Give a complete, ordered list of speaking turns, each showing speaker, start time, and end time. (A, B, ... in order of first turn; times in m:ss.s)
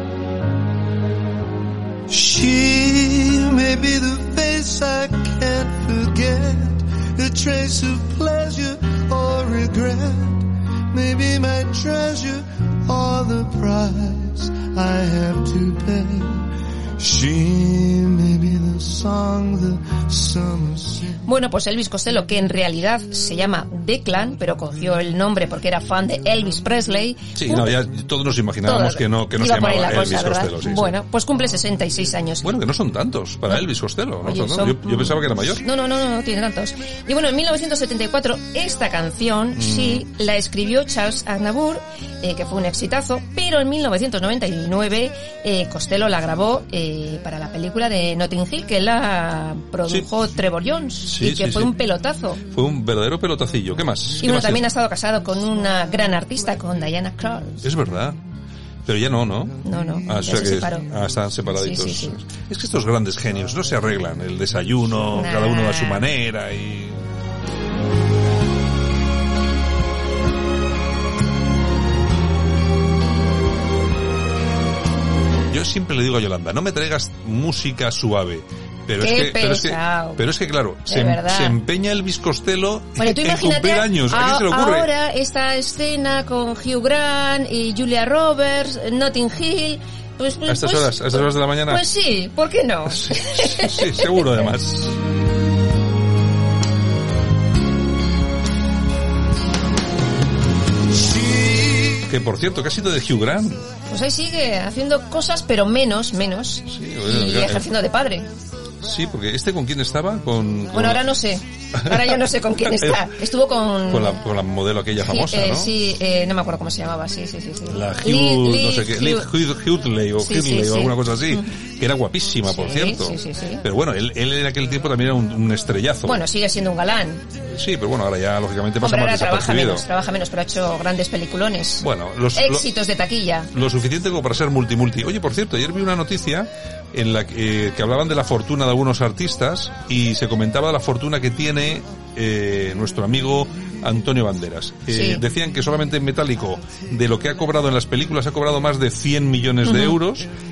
0:02.1-0:16.4 A
0:17.0-0:21.2 A
0:21.2-0:27.7 B
0:27.4-0:30.9 C
0:28.6-0:32.4 B
0:32.4-0:35.6 C
0:34.2-0:52.4 B
0:39.6-0:40.0 C
0:51.1-0:51.7 C
0:52.5-0:54.6 C
0:54.2-0:57.6 B
0:57.6-0:58.2 C
0:58.8-1:07.0 C
0:59.6-1:00.9 B
1:01.5-1:02.2 B
1:05.1-1:06.1 B
1:15.5-1:24.9 C
1:19.0-1:20.2 B
1:20.8-1:21.6 B
1:23.0-1:34.4 B
1:30.4-1:31.8 C
1:32.9-1:35.0 C
1:41.9-1:43.6 C
1:43.9-1:48.3 B
1:46.7-1:47.7 C
1:48.8-1:51.0 C
1:50.7-1:54.2 B
1:51.8-1:53.1 C
1:53.9-1:55.7 C
1:55.0-1:59.3 B
1:57.6-2:06.2 C
2:00.2-2:01.5 B
2:02.4-2:03.6 B
2:06.0-2:07.2 B
2:07.4-2:09.8 C
2:08.8-2:13.5 B
2:11.8-2:12.7 C
2:13.5-2:30.3 C
2:24.9-2:25.2 B
2:29.6-2:30.0 B